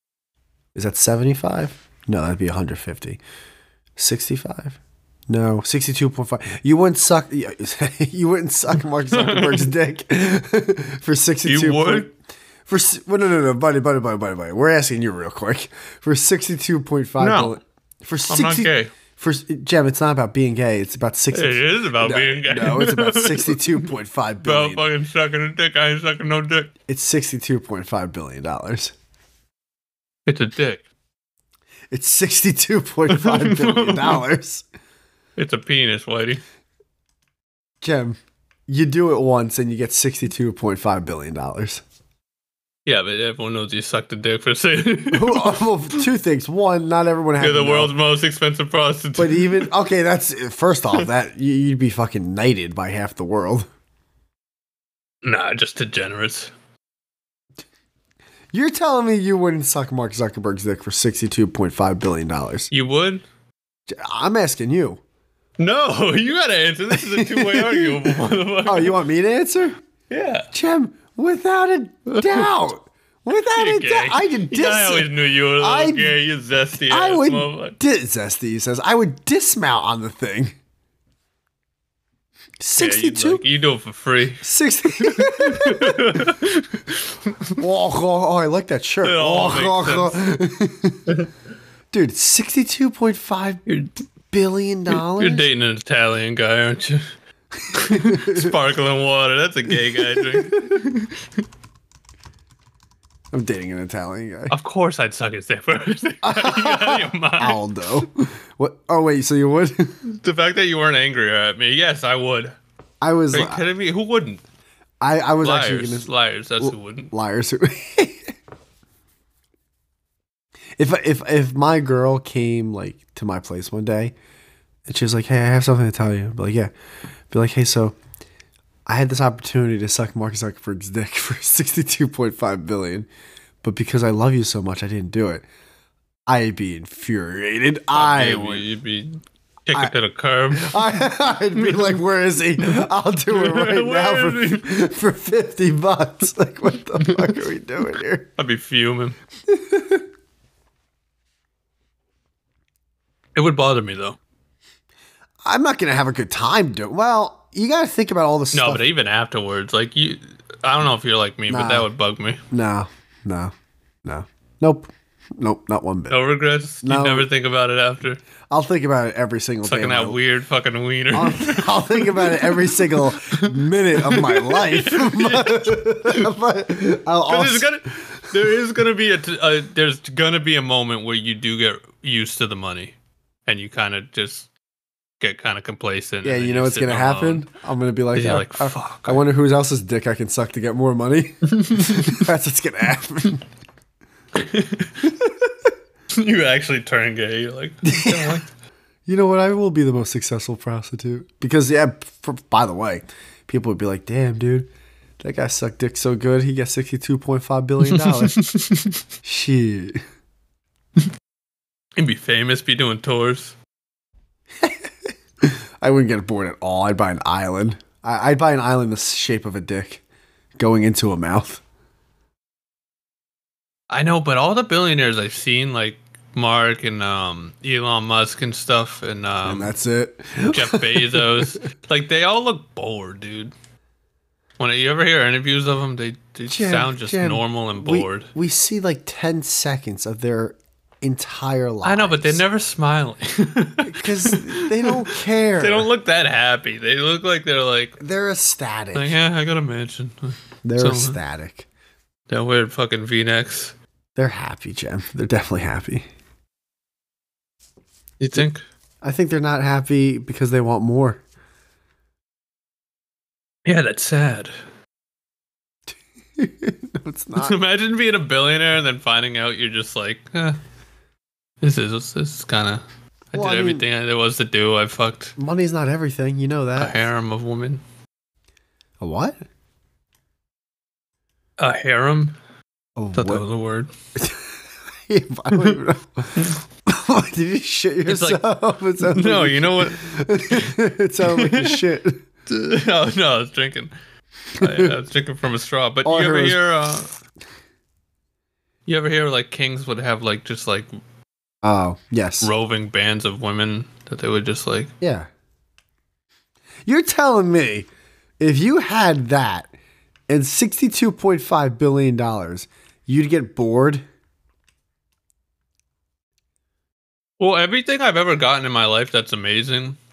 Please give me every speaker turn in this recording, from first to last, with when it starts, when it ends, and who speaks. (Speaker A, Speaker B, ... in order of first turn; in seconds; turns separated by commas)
Speaker A: 0.8-3.2, Speaker A: 4.0-12.1, Speaker B: 9.1-9.7, Speaker B: 11.4-12.1, Speaker A: 12.7-24.9, Speaker B: 17.2-17.6, Speaker B: 18.3-18.9, Speaker B: 21.3-23.9, Speaker B: 24.4-26.7, Speaker A: 26.9-28.9, Speaker B: 30.3-30.8, Speaker A: 31.9-34.6, Speaker B: 33.1-34.2, Speaker B: 35.4-36.4, Speaker A: 37.8-38.2, Speaker A: 38.7-41.8, Speaker B: 42.9-45.7, Speaker A: 45.1-47.9, Speaker B: 47.4-49.7, Speaker A: 49.2-53.7, Speaker B: 55.2-56.5, Speaker A: 58.5-62.7, Speaker B: 62.7-63.2, Speaker A: 63.9-65.0, Speaker B: 65.6-69.0, Speaker A: 66.9-69.8, Speaker B: 70.1-70.5, Speaker A: 70.5-76.2, Speaker B: 72.2-72.5, Speaker B: 73.5-77.8, Speaker A: 76.9-80.5, Speaker A: 82.6-83.4, Speaker B: 82.8-84.5, Speaker A: 84.4-86.3, Speaker B: 85.0-87.6, Speaker A: 87.6-91.1, Speaker B: 89.0-90.2, Speaker A: 91.9-93.6, Speaker B: 93.7-93.9, Speaker A: 94.3-95.5, Speaker B: 94.9-97.0, Speaker A: 97.6-98.5, Speaker B: 97.8-101.4, Speaker A: 100.1-100.8, Speaker A: 103.3-104.5, Speaker B: 104.5-107.6, Speaker A: 106.2-110.0, Speaker B: 110.0-112.6, Speaker A: 113.0-113.6, Speaker B: 113.3-114.4, Speaker A: 115.0-116.1, Speaker B: 115.4-117.1, Speaker A: 116.6-118.3, Speaker A: 120.8-124.1, Speaker A: 124.9-126.7, Speaker A: 127.3-128.0, Speaker A: 128.9-133.1, Speaker A: 133.6-135.4, Speaker A: 136.3-138.7, Speaker B: 137.9-141.0, Speaker A: 140.5-148.3, Speaker B: 141.6-142.0, Speaker B: 143.3-144.8, Speaker B: 147.0-147.4, Speaker B: 148.4-149.2, Speaker A: 149.5-150.0, Speaker B: 153.3-154.2, Speaker A: 155.5-158.8, Speaker B: 158.5-162.4, Speaker A: 161.5-161.9, Speaker A: 162.5-163.5, Speaker A: 164.1-166.2, Speaker B: 166.1-168.2, Speaker A: 166.8-167.3, Speaker A: 168.5-170.2, Speaker B: 169.6-176.3, Speaker A: 171.1-178.3, Speaker B: 177.3-182.9, Speaker B: 183.5-184.5, Speaker B: 185.2-187.5, Speaker A: 186.2-193.4, Speaker B: 188.2-189.2, Speaker B: 191.5-192.3, Speaker B: 194.3-195.1, Speaker B: 196.1-198.4, Speaker A: 197.8-198.4, Speaker A: 199.1-204.7, Speaker A: 205.2-208.3, Speaker B: 207.8-209.0, Speaker A: 209.2-210.0, Speaker B: 212.0-213.6, Speaker A: 215.4-220.0, Speaker A: 220.6-221.6, Speaker B: 223.9-229.7, Speaker A: 229.4-231.5, Speaker B: 230.5-233.5, Speaker B: 234.6-238.3, Speaker A: 236.5-242.4, Speaker B: 241.8-248.0, Speaker A: 243.8-245.9, Speaker A: 248.0-249.2, Speaker B: 248.9-251.2, Speaker A: 250.6-251.7, Speaker B: 252.3-253.8, Speaker A: 254.2-256.1, Speaker B: 258.2-258.6, Speaker A: 259.0-261.2, Speaker B: 263.6-264.5, Speaker A: 265.9-267.6, Speaker B: 267.4-270.6, Speaker B: 271.6-275.4, Speaker A: 273.3-273.9, Speaker A: 275.4-277.1, Speaker B: 276.8-277.8, Speaker A: 279.0-279.4, Speaker B: 281.6-282.4, Speaker A: 283.0-283.4, Speaker B: 283.1-283.9, Speaker A: 284.2-284.4, Speaker A: 285.1-292.2, Speaker B: 285.5-285.8, Speaker B: 288.1-288.4, Speaker B: 289.0-291.8, Speaker B: 292.5-293.9, Speaker A: 294.6-294.9, Speaker B: 294.6-297.1, Speaker A: 296.1-296.6, Speaker B: 298.9-300.9, Speaker A: 301.6-302.5, Speaker B: 302.4-304.9, Speaker A: 305.0-305.3, Speaker A: 306.9-307.9, Speaker A: 308.4-309.7, Speaker A: 310.3-314.0, Speaker B: 317.4-320.0